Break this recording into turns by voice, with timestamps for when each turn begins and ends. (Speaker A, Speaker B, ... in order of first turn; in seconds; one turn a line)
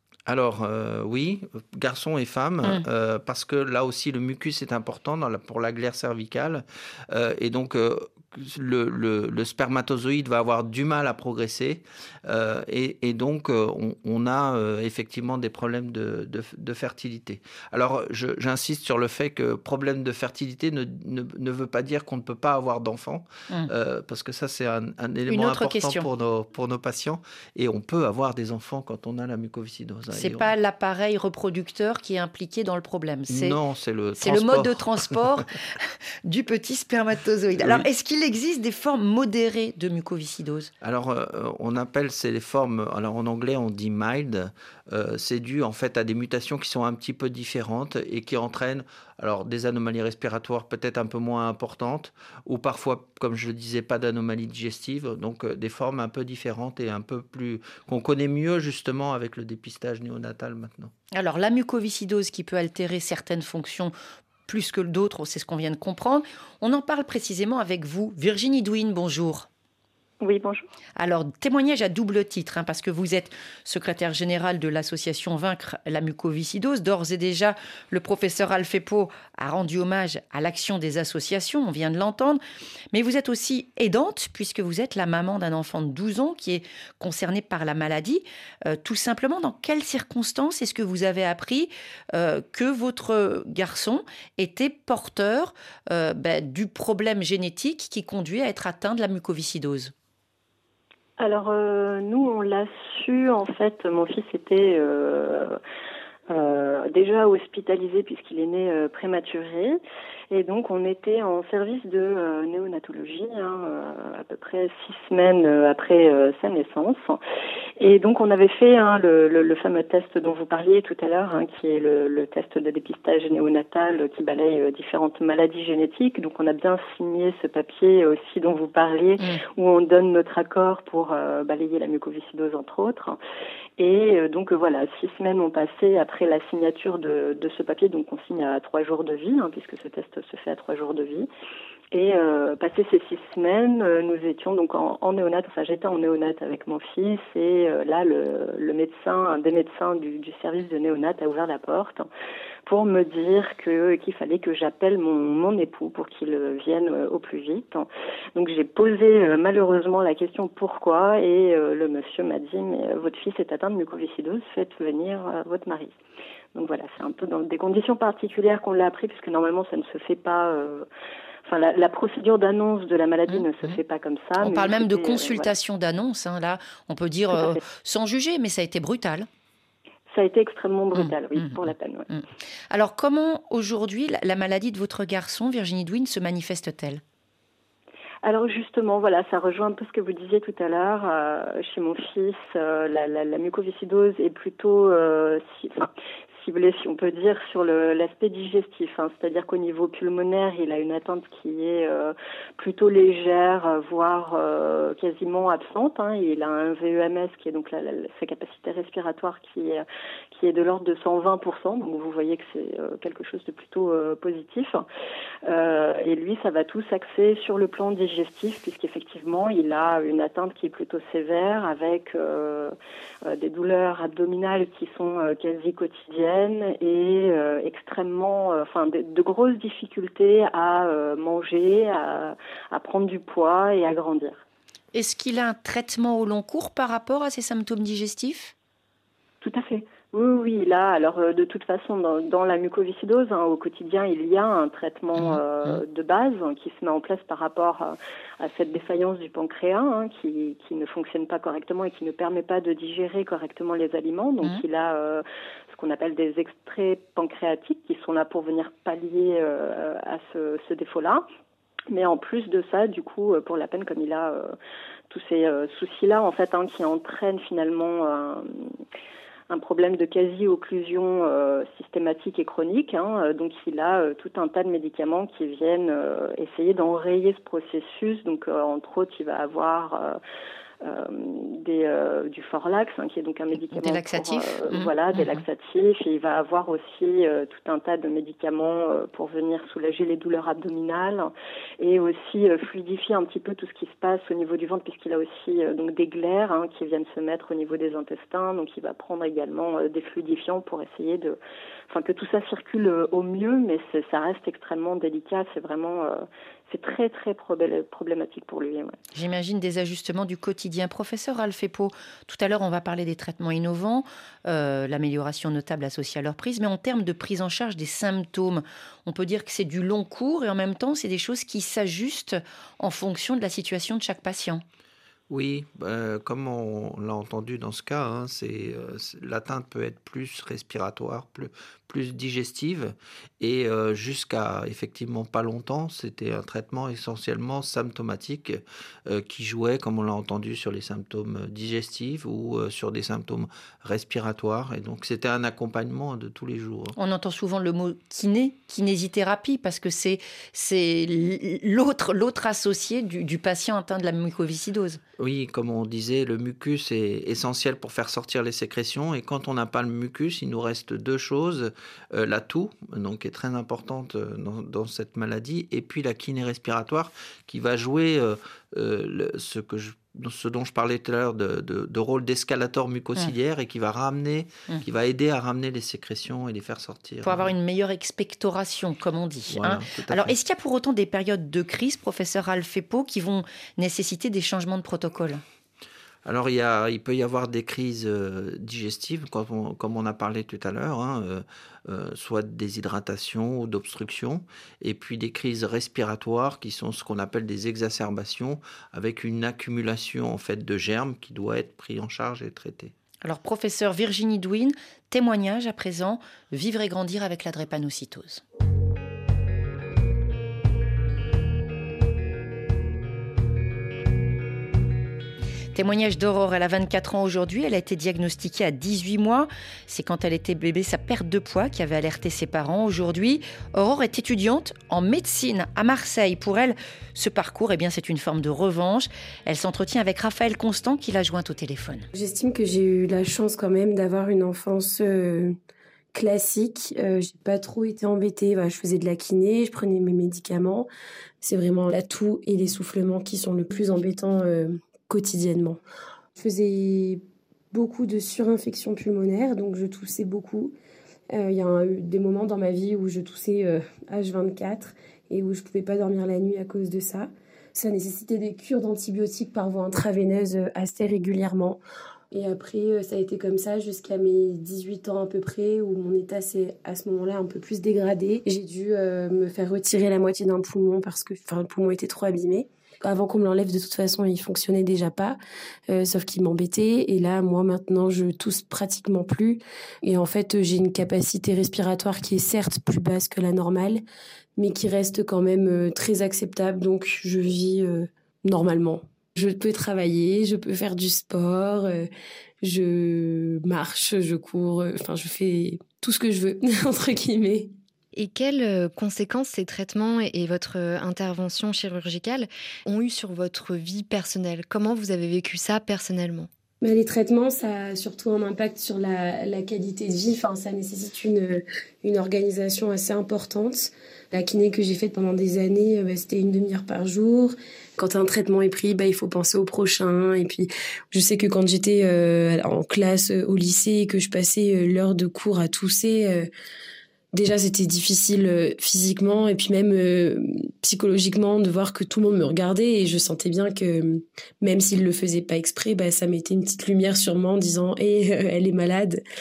Speaker A: 0.3-30.5
Speaker B: 25.3-26.1
Speaker B: 30.1-33.6
Speaker A: 33.3-35.4
Speaker B: 34.2-40.7
Speaker A: 37.6-37.9
Speaker A: 40.8-60.9
Speaker B: 61.1-63.9
Speaker B: 64.5-69.5
Speaker C: 70.2-70.7
Speaker B: 71.0-82.4
Speaker B: 82.9-99.9
Speaker C: 101.2-105.6
Speaker C: 106.3-109.8
Speaker C: 110.3-117.2
Speaker C: 117.8-133.2
Speaker C: 133.8-141.3
Speaker C: 141.9-152.1
Speaker C: 152.7-165.9
Speaker C: 166.6-170.9
Speaker C: 171.5-175.5
Speaker B: 173.3-173.8
Speaker B: 174.4-179.3
Speaker C: 180.1-182.1
Speaker B: 180.9-187.0
Speaker C: 188.2-214.8
Speaker C: 215.5-222.8
Speaker C: 223.3-234.4
Speaker B: 234.9-238.5
Speaker C: 239.4-261.2
Speaker B: 245.2-245.8
Speaker C: 261.9-264.6
Speaker C: 265.1-268.7
Speaker C: 269.5-280.2
Speaker C: 280.8-291.3
Speaker B: 283.7-285.4
Speaker C: 291.8-301.4
Speaker C: 301.9-309.0
Speaker B: 309.1-324.6
Speaker A: 325.3-347.0
Speaker B: 347.0-355.0
Speaker A: 355.2-377.5
Speaker B: 377.2-385.4
Speaker A: 379.5-380.4
Speaker A: 386.2-402.9
Speaker B: 403.2-408.4
Speaker B: 415.7-432.1
Speaker D: 432.1-435.6
Speaker D: 436.1-440.9
Speaker D: 441.4-445.8
Speaker D: 446.4-450.7
Speaker D: 451.3-461.8
Speaker D: 462.3-475.4
Speaker D: 475.9-484.0
Speaker D: 484.6-492.1
Speaker D: 492.6-497.7
Speaker E: 498.1-506.5
Speaker D: 506.8-526.5
Speaker D: 527.3-539.2